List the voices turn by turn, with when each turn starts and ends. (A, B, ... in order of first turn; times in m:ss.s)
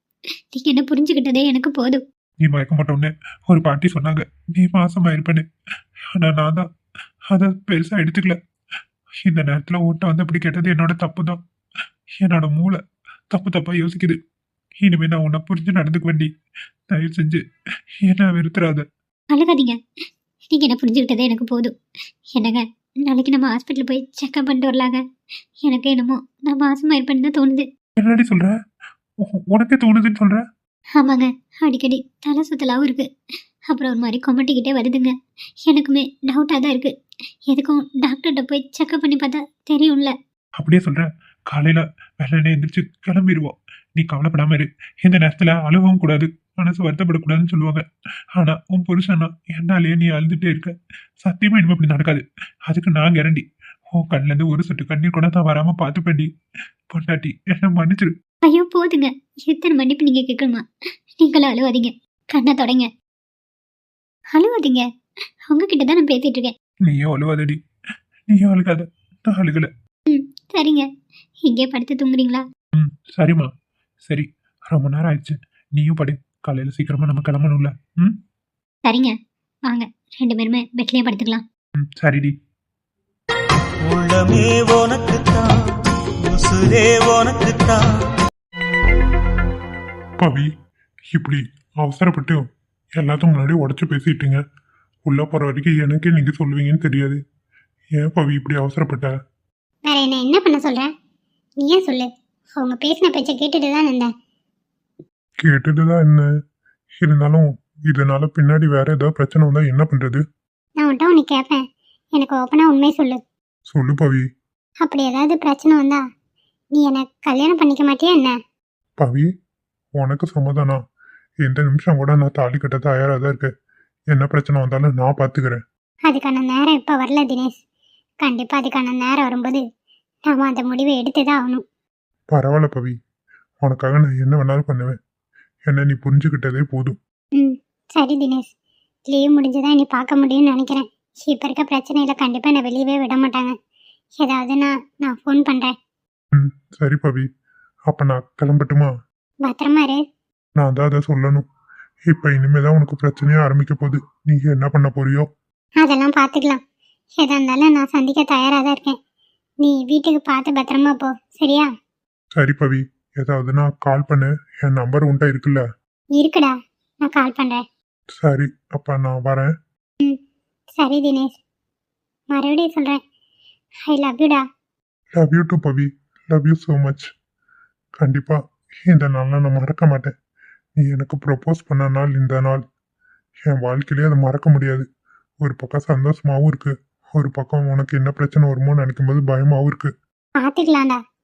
0:00.6-0:02.0 A
0:02.4-0:05.4 B
0:06.1-0:06.6 B
0:07.3-0:08.4 B
0:09.2-0:11.4 B
0:12.2-0:12.8 B
0:13.3-0:14.2 B
0:14.8-0:16.3 B
0:16.9-0:17.4 B
0:18.0-0:18.9 B
0:19.3-0:19.8 A
0:20.5-0:21.7 A
0:22.4-0:25.0 A
0:25.6-0:27.6 A
0:28.0-0:28.5 B
0:29.3-0:30.4 B
0:31.0-0:33.0 A
0:33.7-0:35.1 A
0:35.7-0:36.9 A
0:37.5-0:40.1 A
0:40.6-0:47.8 B
0:48.4-0:50.7 B
0:51.2-0:56.3 B
0:56.9-0:58.1 B
0:58.5-1:00.6 A
1:01.2-1:02.9 A
1:04.4-1:04.8 A
1:05.5-1:06.5 A
1:06.9-1:07.6 B
1:08.3-1:09.7 B
1:10.1-1:10.9 A
1:11.4-1:12.4 A
1:12.8-1:13.5 B
1:14.1-1:18.2 B
1:18.9-1:19.1 A
1:19.7-1:21.4 A
1:21.8-1:22.3 B
1:23.9-1:25.5 C
1:26.4-1:27.8 C
1:30.2-1:30.5 B
1:31.1-1:32.4 B
1:33.0-1:34.4 B
1:35.1-1:37.2 B
1:38.0-1:39.1 B
1:39.9-1:40.9 A
1:41.6-1:44.1 A
1:45.4-1:46.2 B
1:47.0-1:50.2 B
1:50.8-1:51.6 A
1:52.2-1:53.2 A
1:53.7-1:54.2 B
1:54.8-1:56.0 A
1:56.8-1:58.3 A
1:59.0-1:59.3 B
2:00.0-2:00.8 B
2:01.4-2:03.5 B
2:04.1-2:05.6 B
2:06.1-2:07.6 A
2:08.2-2:09.6 A
2:10.3-2:11.6 A
2:12.3-2:12.9 B
2:13.6-2:15.0 B
2:15.7-2:17.0 B
2:17.4-2:18.4 A
2:19.1-2:23.5 A
2:24.2-2:25.7 A
2:26.4-2:27.3 B
2:27.9-2:28.9 B
2:29.4-2:30.0 A
2:30.6-2:31.5 B
2:32.1-2:35.3 B
2:35.8-2:36.6 A
2:37.2-2:39.0 A
2:39.6-2:41.7 A
2:42.3-2:45.6 B
2:46.2-2:46.5 A
2:47.1-2:47.6 A
2:48.2-2:49.5 B
2:50.8-2:51.3 A
2:52.3-2:53.0 A
2:53.9-2:54.4 A
2:55.2-2:57.1 B
2:58.0-3:00.1 B
3:00.8-3:02.6 B
3:03.5-3:04.8 B
3:05.4-3:09.9 B
3:10.4-3:11.0 A